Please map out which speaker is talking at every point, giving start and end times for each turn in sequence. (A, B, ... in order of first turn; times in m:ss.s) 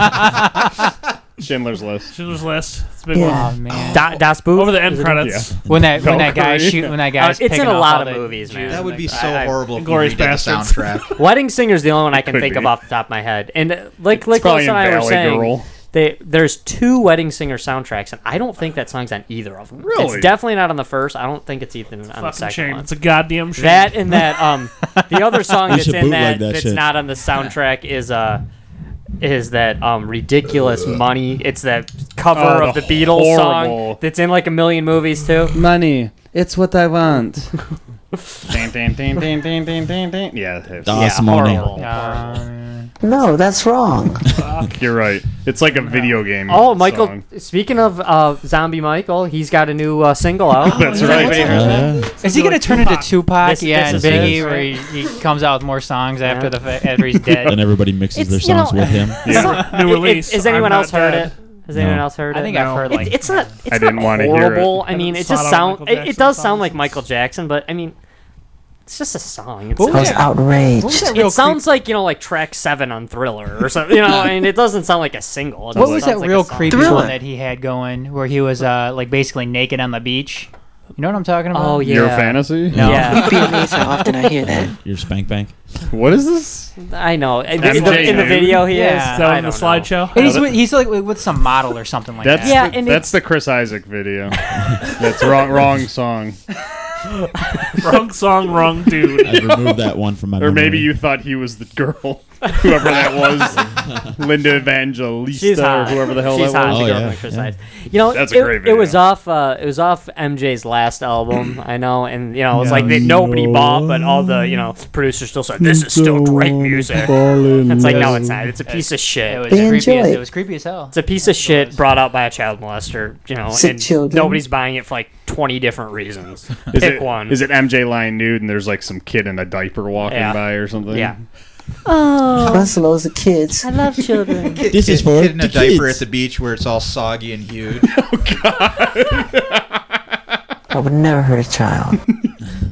0:01.4-0:02.1 A
0:02.1-0:03.4 B
0:03.1-0:03.6 C
0:03.2-0:04.0 D
0:03.7-0:04.0 E
0:03.9-0:05.2 F
0:04.0-0:05.6 B
0:05.2-0:07.0 A
0:05.6-0:09.1 D
0:07.1-0:09.6 F
0:08.7-0:11.1 E
0:09.7-0:11.1 B
0:11.2-0:22.9 F
0:12.1-0:12.7 A
0:14.1-0:15.7 A
0:19.8-0:20.3 A
0:22.2-0:24.2 B
0:23.6-0:28.4 F
0:25.6-0:26.8 G
0:29.2-0:35.6 F
0:32.3-0:34.0 A
0:35.5-0:37.6 A
0:38.5-0:41.3 A
0:40.8-0:41.8 G
0:40.9-0:42.2 F
0:41.7-0:42.9 D
0:43.0-0:44.3 C
0:44.4-0:44.8 B
0:44.6-0:47.2 A
0:46.4-0:51.8 F
0:50.6-0:51.7 A
0:50.7-0:53.3 B
0:50.8-0:57.6 D
0:51.4-0:52.1 G
0:53.3-0:54.7 F
0:53.9-0:54.5 G
0:56.2-0:56.6 F
0:57.1-0:57.6 F
0:57.4-0:59.5 G
0:58.1-1:07.9 F
0:59.2-0:59.7 A
0:59.3-1:01.3 B
1:01.7-1:02.1 G
1:02.3-1:03.6 D
1:02.4-1:03.1 B
1:03.7-1:04.8 A
1:04.8-1:06.8 B
1:08.9-1:10.3 F
1:09.8-1:11.6 D
1:09.9-1:11.2 C
1:11.1-1:17.1 F
1:15.7-1:24.0 D
1:15.7-1:16.1 A
1:16.7-1:17.2 C
1:21.5-1:23.5 F
1:21.8-1:23.4 A
1:22.7-1:23.1 G
1:23.0-1:24.7 C
1:24.7-1:25.5 G
1:25.9-1:26.7 A
1:26.8-1:29.9 F
1:27.6-1:28.7 A
1:27.6-1:30.4 B
1:28.6-1:29.4 D
1:30.1-1:32.8 D
1:30.2-1:30.6 A
1:32.2-1:36.4 A
1:32.4-1:33.1 F
1:37.1-1:38.0 F
1:37.8-1:39.4 B
1:39.2-1:40.9 G
1:40.4-1:47.0 A
1:43.8-1:44.1 G
1:45.3-1:59.5 F
1:46.6-1:47.5 G
1:48.1-1:49.0 A
1:52.6-1:53.8 A
1:55.8-1:58.3 A
1:57.8-2:01.8 D
1:59.5-2:00.3 C
2:00.9-2:07.4 F
2:03.5-2:04.4 C
2:06.7-2:11.1 A
2:10.1-2:11.2 F
2:11.8-2:12.7 F
2:12.3-2:13.7 C
2:13.6-2:14.7 F
2:14.5-2:17.9 E
2:14.7-2:16.0 G
2:17.9-2:19.8 A
2:20.7-2:22.0 C